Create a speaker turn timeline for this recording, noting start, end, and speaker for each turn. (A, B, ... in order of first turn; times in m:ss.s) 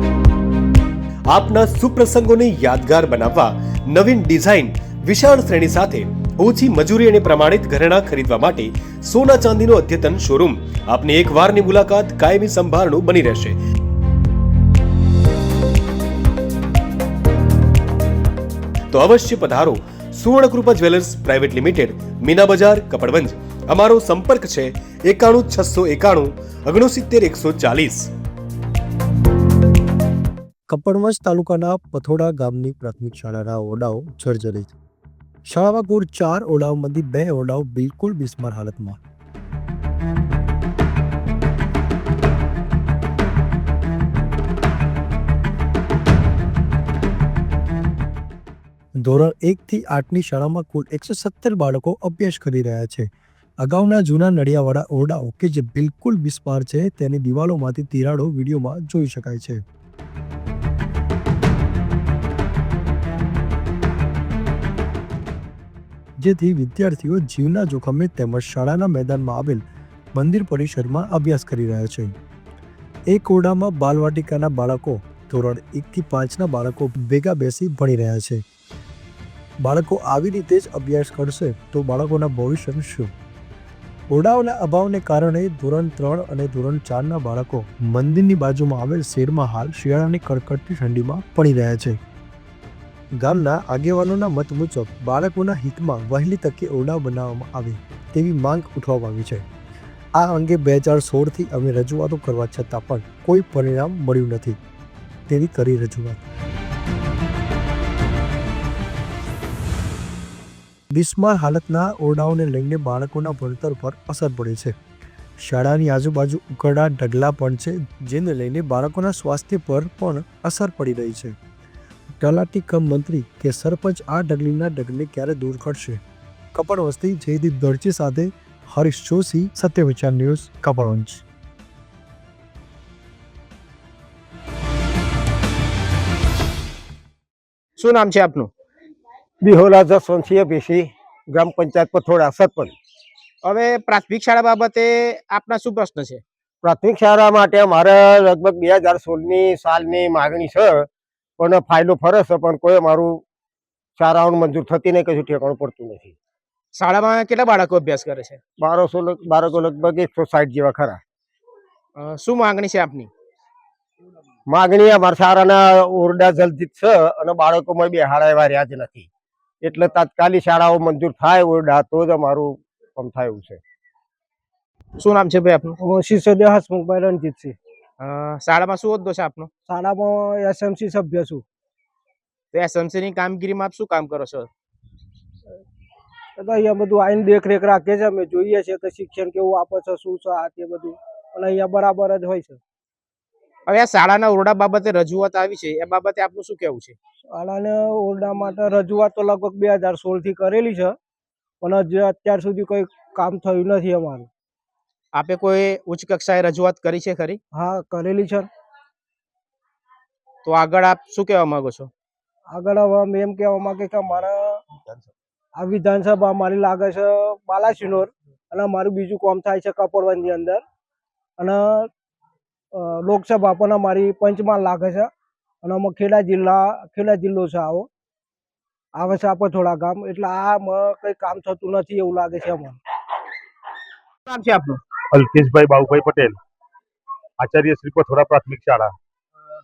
0:01.3-0:13.6 A
0:18.9-0:28.1 A
0:30.7-0:34.7 B
0:35.4-0:39.0 B
0:49.0-0:53.0 B
0:53.6-0:59.6 B
1:06.2-1:09.6 B
1:10.1-1:12.1 B
1:13.1-1:18.4 B
1:19.6-1:23.1 B
1:24.1-1:32.0 B
1:33.2-1:39.4 B
1:40.2-1:44.6 B
1:45.3-1:46.2 B
1:50.9-1:54.8 B
1:55.4-2:01.3 B
2:02.2-2:06.0 B
2:06.5-2:11.2 B
2:17.8-2:18.5 C
2:19.4-2:22.7 D
2:23.4-2:26.2 C
2:26.6-2:30.8 D
2:31.4-2:33.2 D
2:34.0-2:36.1 D
2:36.7-2:38.4 C
2:38.6-2:41.0 D
2:42.0-2:43.1 C
2:44.5-2:49.1 D
2:49.6-2:53.6 D
2:55.0-2:55.8 C
2:55.8-2:57.5 E
2:58.0-2:59.5 C
2:59.7-3:01.4 E
3:02.5-3:04.5 C
3:06.4-3:12.6 E
3:13.7-3:17.0 C
3:17.3-3:20.9 E
3:21.6-3:24.3 E
3:25.1-3:27.4 C
3:27.5-3:28.5 E
3:30.4-3:31.9 C
3:32.5-3:34.6 E
3:35.6-3:40.6 E
3:41.4-3:41.9 E
3:42.7-3:45.1 E
3:45.6-3:47.9 E
3:49.0-3:52.8 E
3:54.2-3:54.8 C
3:55.1-3:56.3 F
3:57.4-3:58.9 F